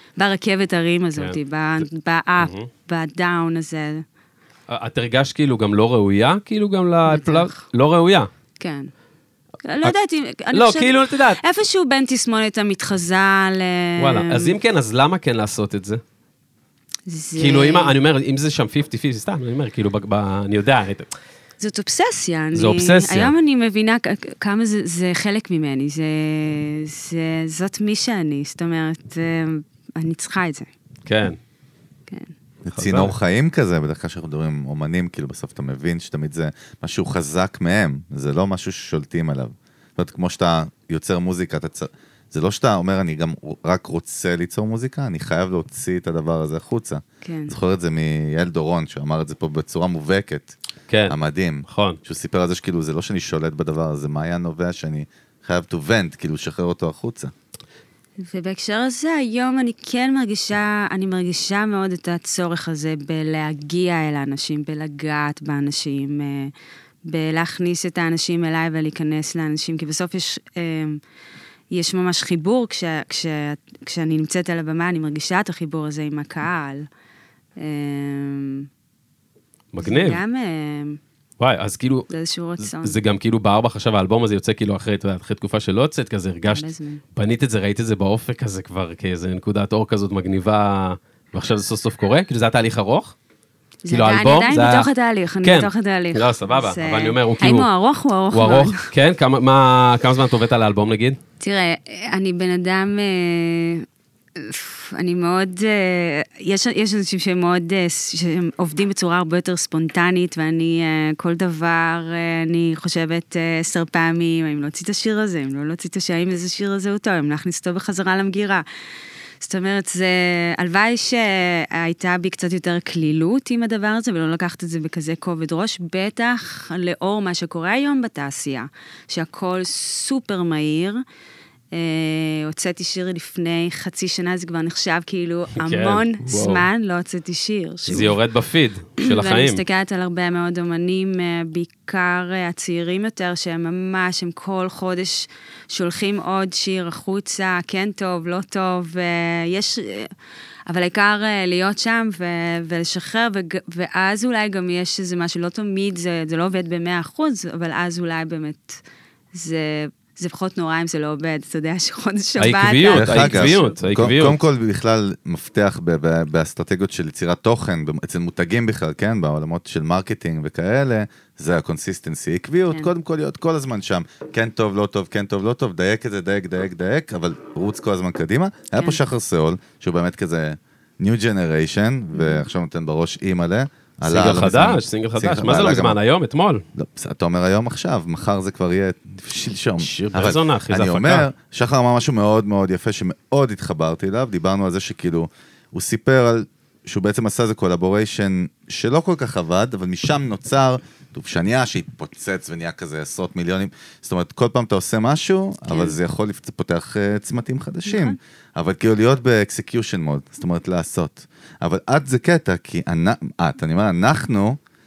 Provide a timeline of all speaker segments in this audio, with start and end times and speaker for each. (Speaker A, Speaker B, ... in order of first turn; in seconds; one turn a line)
Speaker A: 0.2-4.0
Speaker B: 2.4-2.7
Speaker B: 4.7-8.3
Speaker A: 7.1-7.6
Speaker A: 8.6-8.9
Speaker A: 9.6-14.6
Speaker B: 10.5-11.4
Speaker B: 14.0-16.0
Speaker A: 17.1-17.9
Speaker B: 17.4-21.1
Speaker A: 21.6-30.7
Speaker B: 22.6-23.3
Speaker B: 31.1-31.4
Speaker C: 32.6-50.5
Speaker B: 32.8-33.1
Speaker A: 47.2-47.5
Speaker B: 50.9-51.1
Speaker C: 51.1-57.3
Speaker B: 51.7-52.0
Speaker A: 58.2-66.5
Speaker A: 67.0-71.0
Speaker A: 71.7-76.9
Speaker A: 77.6-78.7
Speaker B: 79.7-80.2
Speaker A: 79.8-81.0
Speaker B: 81.4-93.2
Speaker A: 82.1-83.0
Speaker A: 86.5-87.0
Speaker A: 93.8-98.9
Speaker B: 93.9-94.9
Speaker B: 95.4-97.7
Speaker B: 98.3-101.2
Speaker A: 101.4-118.7
Speaker A: 119.4-131.0
Speaker A: 131.7-138.2
Speaker B: 135.6-136.7
Speaker B: 137.9-139.6
Speaker A: 139.0-150.1
Speaker A: 150.7-158.8
Speaker A: 159.3-163.8
Speaker B: 162.4-164.4
Speaker C: 162.9-186.0
Speaker A: 182.1-182.4
Speaker B: 184.1-186.6
Speaker C: 186.8-214.6
Speaker B: 189.8-191.3
Speaker A: 205.7-206.0
Speaker A: 207.9-208.2